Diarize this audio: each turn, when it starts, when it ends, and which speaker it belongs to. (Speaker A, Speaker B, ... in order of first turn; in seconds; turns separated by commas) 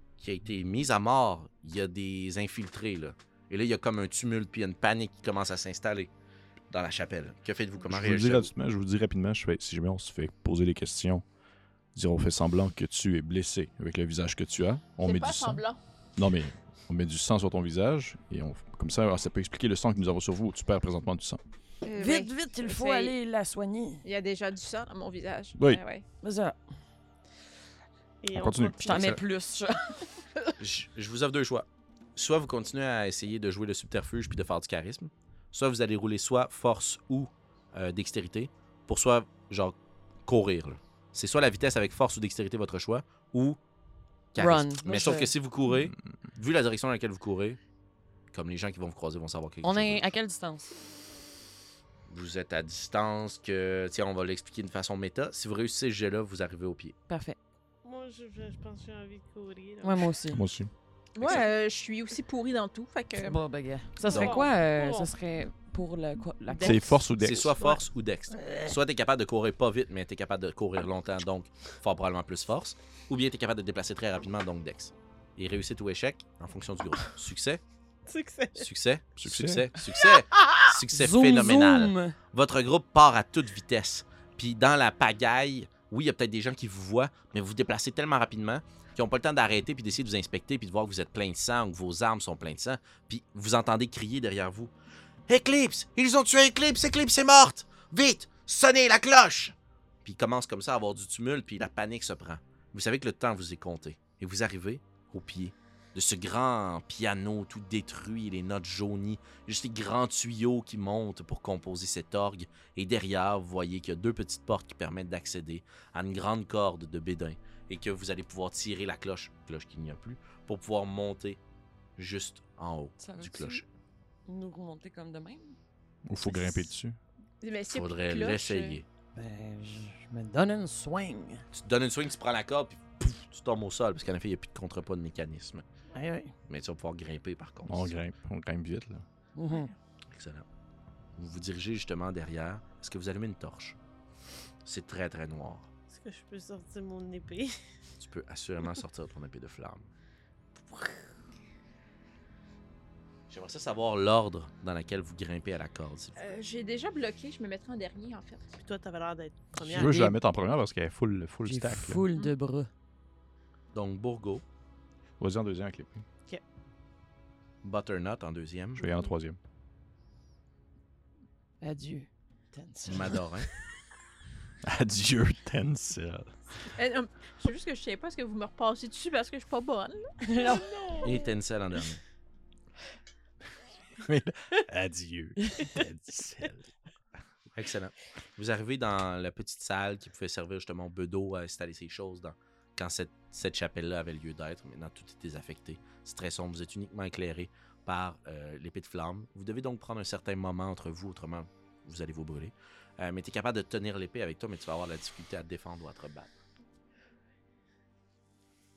Speaker A: 0.2-6.1, Speaker A: 6.7-8.5, Speaker B: 7.9-11.2, Speaker B: 11.9-15.6, Speaker C: 15.0-15.8, Speaker B: 16.2-21.4, Speaker C: 21.8-23.1, Speaker D: 22.0-24.0, Speaker C: 24.0-26.0, Speaker D: 26.2-26.6, Speaker E: 28.2-29.2, Speaker B: 28.3-29.2, Speaker D: 28.8-30.1, Speaker A: 30.6-43.6, Speaker A: 44.3-47.6, Speaker D: 44.4-45.3, Speaker A: 48.3-50.0, Speaker D: 49.6-50.7, Speaker A: 52.1-57.0, Speaker D: 57.1-57.4, Speaker E: 57.8-60.2, Speaker D: 59.8-60.4, Speaker B: 60.3-60.7, Speaker C: 61.1-63.4, Speaker D: 63.2-67.0, Speaker E: 64.1-65.1, Speaker A: 64.1-64.5, Speaker E: 66.5-66.8, Speaker B: 66.6-67.6, Speaker A: 67.2-77.6, Speaker D: 68.3-68.7, Speaker E: 78.0-78.7, Speaker A: 78.5-94.7, Speaker B: 79.2-79.7, Speaker D: 80.8-82.2, Speaker A: 95.3-121.4, Speaker A: 122.0-123.6, Speaker D: 123.0-123.6, Speaker D: 124.2-125.5, Speaker B: 126.0-127.0, Speaker C: 126.3-126.6, Speaker C: 127.4-128.8, Speaker A: 127.7-128.8, Speaker D: 129.1-131.4, Speaker A: 131.5-135.6, Speaker D: 135.9-136.3, Speaker A: 136.5-138.0, Speaker B: 137.7-139.1, Speaker D: 139.3-139.7, Speaker A: 140.1-140.4, Speaker A: 141.2-143.8, Speaker A: 144.6-145.7, Speaker E: 145.9-147.6, Speaker A: 148.0-149.9, Speaker A: 153.3-156.2, Speaker C: 156.2-158.5, Speaker E: 158.6-160.1, Speaker B: 159.6-162.0, Speaker D: 159.7-160.2, Speaker D: 161.4-162.7, Speaker A: 163.7-164.4, Speaker B: 165.2-166.0, Speaker A: 167.6-168.9, Speaker B: 168.8-169.4, Speaker D: 171.6-173.2, Speaker A: 172.8-173.5, Speaker B: 174.6-176.5, Speaker C: 176.8-181.1, Speaker D: 180.3-180.6, Speaker E: 180.5-181.2, Speaker A: 181.0-182.0, Speaker B: 184.0-186.7, Speaker D: 185.4-185.7, Speaker A: 187.5-206.3